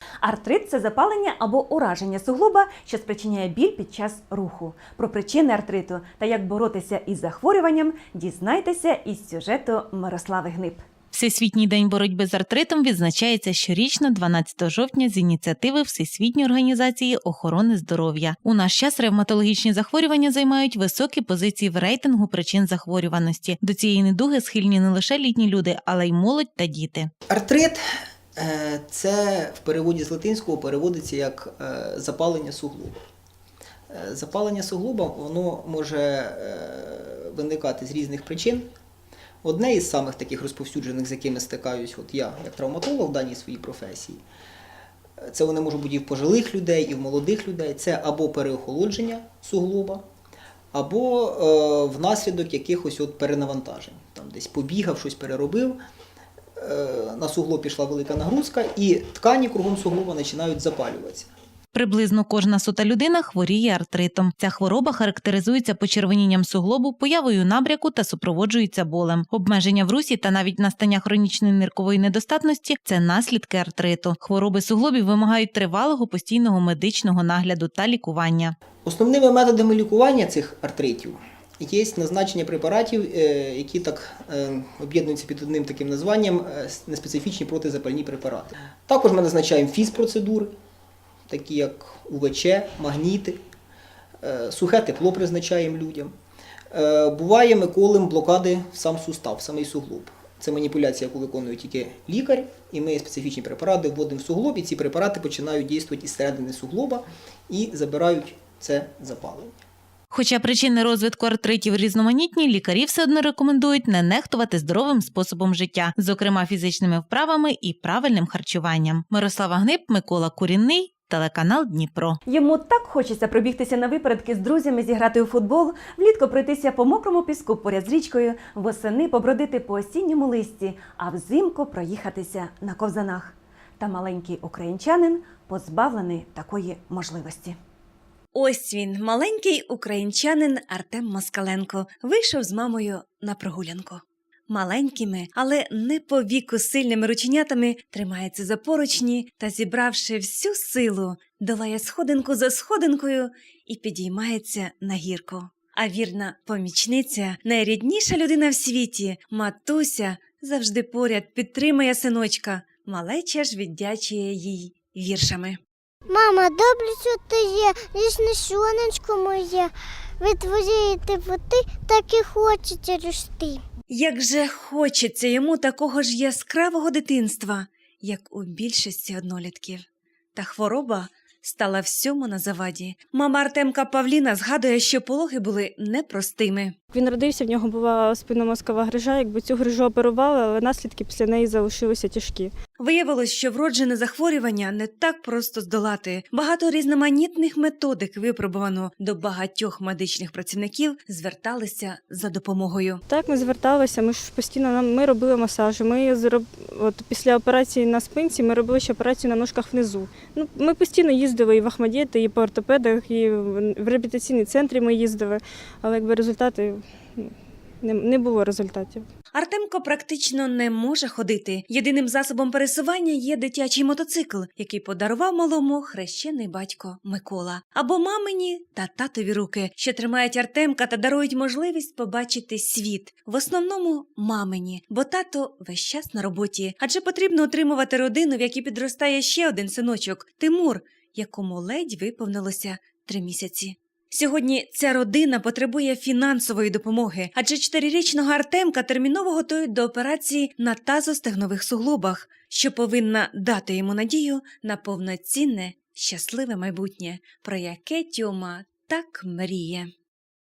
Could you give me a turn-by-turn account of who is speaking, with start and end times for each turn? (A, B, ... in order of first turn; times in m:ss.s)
0:00.2-0:10.8 A
0:11.1-0:27.1 B
0:27.3-0:27.8 C
0:28.4-0:32.9 C
0:33.9-0:38.7 C
0:39.4-0:44.2 C
0:45.3-0:50.0 C
0:50.7-0:55.8 C
0:56.6-1:01.3 C
1:01.7-1:18.6 B
1:18.8-1:30.5 C
1:31.3-1:33.4 C
1:34.2-1:36.1 C
1:36.7-1:49.5 C
1:50.1-2:02.2 B
2:02.2-2:17.6 A
2:18.3-2:45.6 A
2:46.1-2:53.6 D
2:53.9-3:06.8 A
3:06.9-3:12.5 E
3:12.8-3:23.0 A
3:23.1-3:39.1 E
3:39.3-4:19.9 A